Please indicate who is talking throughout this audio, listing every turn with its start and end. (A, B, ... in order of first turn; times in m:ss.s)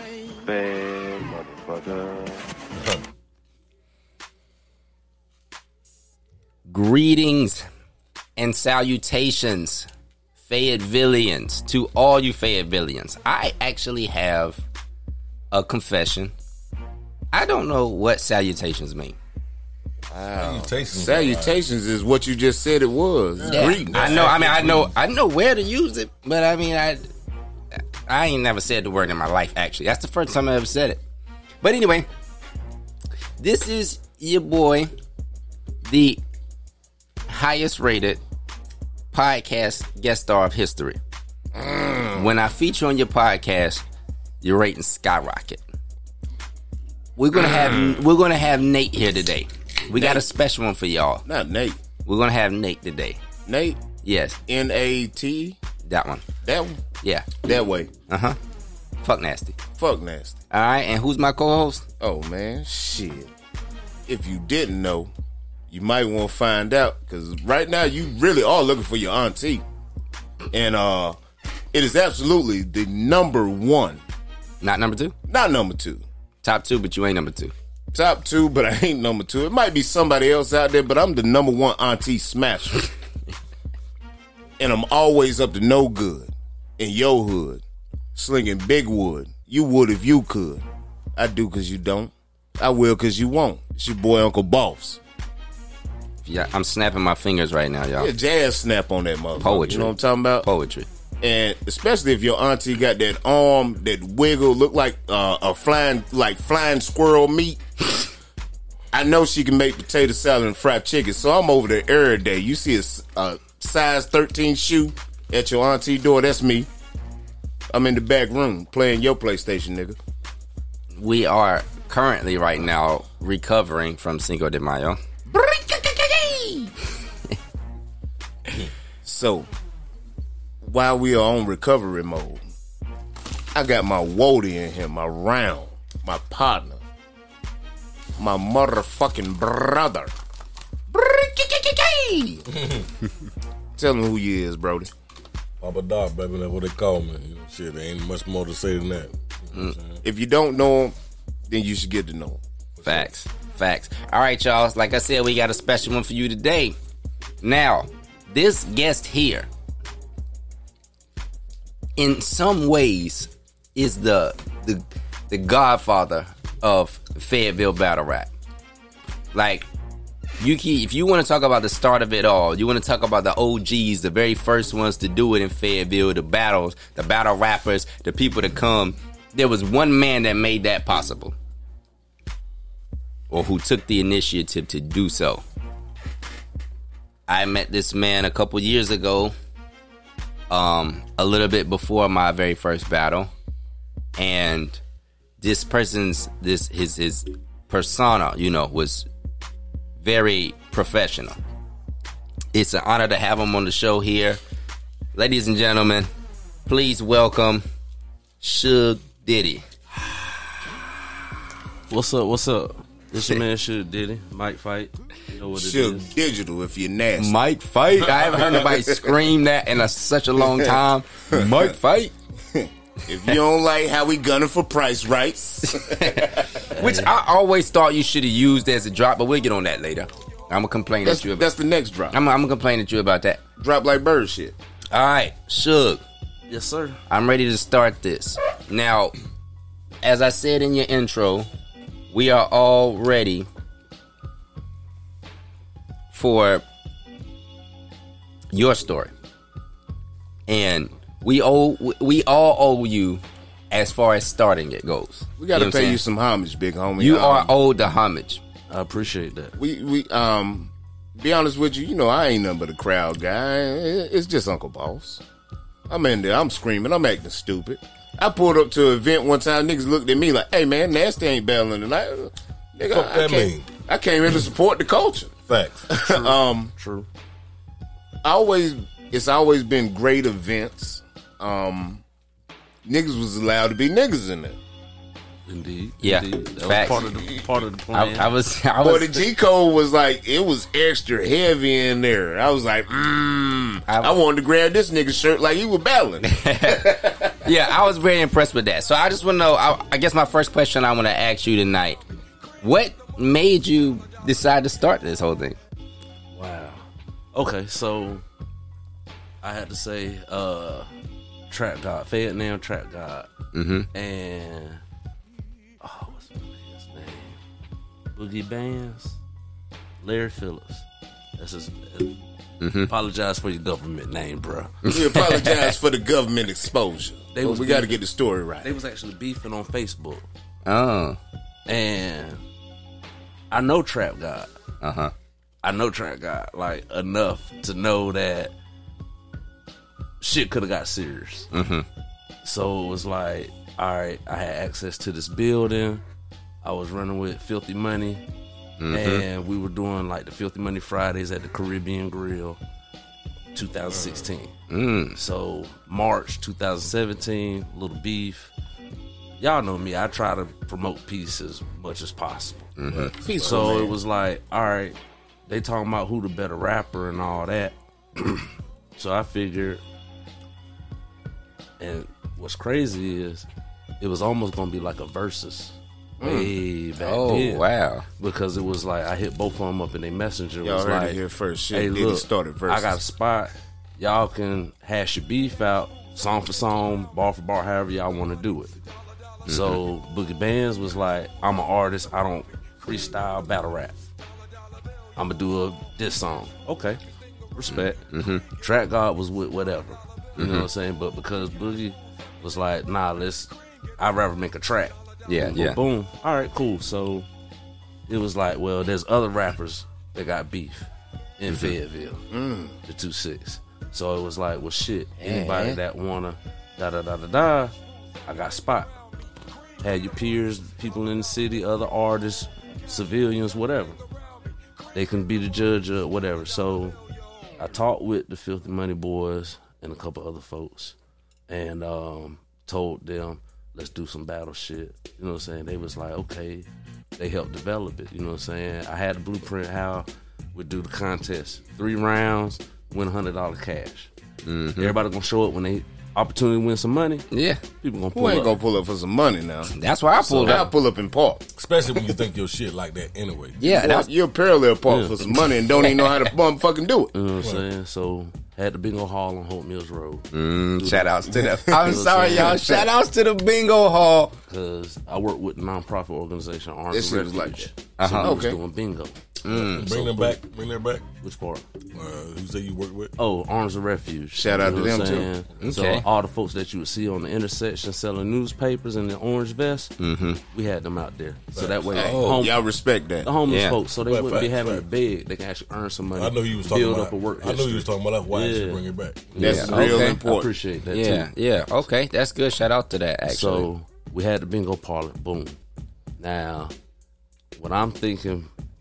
0:00.4-0:02.5 A
0:02.7-0:03.0 B
0:06.7-0:07.6 C
0:08.4-0:09.9 C
0:10.5-0:14.6 C
0:15.5-0:16.3 C
0:17.3-0:19.2 C
0:20.1-0:24.4 D
0:20.4-0:21.6 B
0:23.4-0:24.9 B
0:23.5-0:27.1 C
0:27.8-0:31.0 C
0:31.6-0:32.1 C
0:33.4-0:34.9 C
0:35.8-0:36.2 C
0:37.3-0:38.2 C
0:39.1-0:41.0 C
0:41.5-0:42.3 D
0:42.1-0:43.8 C
0:44.4-0:45.6 C
0:47.2-0:51.2 C
0:49.9-0:50.3 D
0:51.3-0:51.8 D
0:52.1-0:53.2 C
0:53.5-0:53.8 D
0:54.0-0:54.4 C
0:54.5-0:55.6 D
0:55.9-0:56.3 C
0:56.4-0:56.8 D
0:57.0-0:57.5 C
0:57.4-0:57.9 D
0:58.1-0:58.4 C
0:59.0-0:59.6 C
0:59.8-1:00.4 D
1:00.5-1:01.8 C
1:02.0-1:03.3 D
1:04.1-1:05.1 D
1:05.7-1:09.6 D
1:10.5-1:11.2 D
1:11.7-1:14.0 D
1:14.6-1:15.1 C
1:15.3-1:16.0 D
1:16.4-1:17.5 C
1:17.9-1:22.9 D
1:24.6-1:27.6 D
1:28.2-1:30.6 D
1:31.2-1:35.0 D
1:36.2-1:38.1 C
1:38.0-1:40.5 D
1:39.4-1:40.9 C
1:41.2-1:47.6 D
1:48.9-1:56.7 D
1:57.7-2:00.0 D
2:01.0-2:05.0 C
2:05.3-2:06.7 D
2:09.0-2:09.5 D
2:10.6-2:12.4 D
2:13.5-2:16.8 D
2:18.2-2:20.1 D
2:20.9-2:22.4 D
2:22.5-2:22.8 B
2:23.8-2:24.9 D
2:25.6-2:30.0 B
2:30.0-2:31.0 D
2:31.5-2:32.4 D
2:32.8-2:33.1 B
2:32.8-2:36.8 C
2:37.4-2:39.5 C
2:42.0-2:48.3 C
2:49.3-2:49.7 C
2:50.4-3:01.4 C
3:03.3-3:05.4 C
3:07.3-3:09.3 C
3:10.5-3:13.3 C
3:14.2-3:14.8 C
3:15.4-3:19.1 C
3:20.0-3:21.4 C
3:22.5-3:24.4 C
3:25.1-3:26.1 C
3:26.7-3:27.6 C
3:28.4-3:29.6 C
3:31.9-3:36.1 E
3:35.5-3:37.3 D
3:37.2-3:42.1 C
3:38.1-3:39.1 D
3:40.4-3:40.8 D
3:41.3-3:41.7 D
3:42.5-3:46.5 D
3:45.7-3:51.5 C
3:46.7-3:47.1 E
3:51.0-3:52.2 D
3:52.1-3:53.4 C
3:53.6-3:54.6 D
3:54.9-3:56.0 C
3:56.5-3:57.0 E
3:57.1-3:59.2 C
4:00.0-4:01.5 C
4:02.1-4:03.5 C
4:06.1-4:06.6 C
4:08.5-4:09.1 C
4:10.5-4:16.0 C
4:15.4-4:17.5 D
4:17.0-4:18.4 C
4:18.7-4:19.6 E
4:19.6-4:25.2 D
4:25.9-4:35.3 D
4:32.9-4:33.7 B
4:35.5-4:35.9 B
4:35.9-4:36.7 D
4:36.0-4:37.1 E
4:38.2-4:42.0 D
4:42.8-4:44.6 D
4:45.5-4:48.3 E
4:46.0-4:47.1 C
4:47.9-4:49.3 C
4:48.8-4:57.4 D
4:53.9-4:54.2 C
4:56.2-5:02.0 C
5:02.6-5:05.6 C
5:06.3-5:08.2 E
5:09.4-5:10.9 E
5:11.5-5:13.3 E
5:13.5-5:13.9 C
5:13.9-5:14.8 E
5:15.8-5:17.4 E
5:18.1-5:19.2 E
5:20.0-5:20.9 E
5:21.4-5:22.2 E
5:22.6-5:22.9 C
5:22.9-5:24.8 E
5:24.8-5:25.7 C
5:24.9-5:28.7 D
5:27.3-5:28.0 E
5:28.6-5:30.3 E
5:30.6-5:31.2 C
5:31.7-5:32.4 E
5:33.5-5:34.5 E
5:34.8-5:35.1 C
5:35.6-5:38.5 E
5:40.2-5:41.5 E
5:41.5-5:41.9 C
5:42.4-5:46.0 E
5:46.6-5:48.2 E
5:48.8-5:49.2 C
5:48.9-5:52.6 E
5:53.6-5:54.6 E
5:54.7-5:55.2 C
5:55.1-5:58.5 E
5:59.4-6:02.7 E
6:02.8-6:03.1 C
6:03.1-6:04.0 D
6:03.4-6:09.8 E
6:11.8-6:13.5 E
6:14.0-6:17.6 E
6:16.2-6:16.5 D
6:17.0-6:18.1 C
6:18.2-6:21.2 E
6:20.6-6:23.0 D
6:21.7-6:28.7 E
6:29.5-6:34.0 E
6:29.5-6:29.8 C
6:35.2-6:37.0 E
6:37.5-6:47.3 E
6:37.7-6:38.4 C
6:40.4-6:40.7 C
6:45.3-6:45.8 C
6:48.1-6:52.3 E
6:51.5-6:51.8 C
6:52.3-6:52.8 D
6:52.9-6:57.8 E
6:55.2-6:55.8 D
6:58.3-6:59.0 E
6:59.8-7:04.0 E
7:04.9-7:07.0 E
7:07.6-7:11.0 E
7:11.5-7:16.7 E
7:17.2-7:24.1 E
7:24.4-7:25.0 C
7:24.8-7:27.3 E
7:27.3-7:27.6 C
7:27.8-7:28.6 E
7:28.1-7:29.8 D
7:29.7-7:30.7 C
7:30.2-7:30.7 E
7:30.4-7:31.4 D
7:31.6-7:33.6 B
7:33.6-7:34.1 C
7:33.6-7:37.1 D
7:34.9-7:35.4 E
7:35.8-7:36.2 C
7:37.1-7:40.3 E
7:40.3-7:44.4 C
7:40.8-7:42.8 E
7:41.4-7:42.9 D
7:44.5-7:49.2 E
7:46.9-7:48.6 D
7:48.0-7:48.4 C
7:49.4-7:50.1 C
7:49.5-7:51.0 B
7:49.8-7:50.4 E
7:51.2-7:51.7 E
7:52.0-7:53.1 B
7:53.2-7:59.9 E
7:54.4-7:55.3 D
7:55.6-7:56.0 C
8:00.0-8:00.4 C
8:00.5-8:02.6 E
8:01.6-8:01.9 B
8:01.9-8:03.3 D
8:01.9-8:02.5 C
8:03.2-8:11.3 E
8:03.5-8:03.8 C
8:04.1-8:04.8 B
8:06.2-8:09.3 B
8:09.4-8:10.5 D
8:09.4-8:10.2 C
8:10.9-8:13.7 C
8:13.3-8:15.6 E
8:16.2-8:16.7 E
8:17.6-8:18.5 E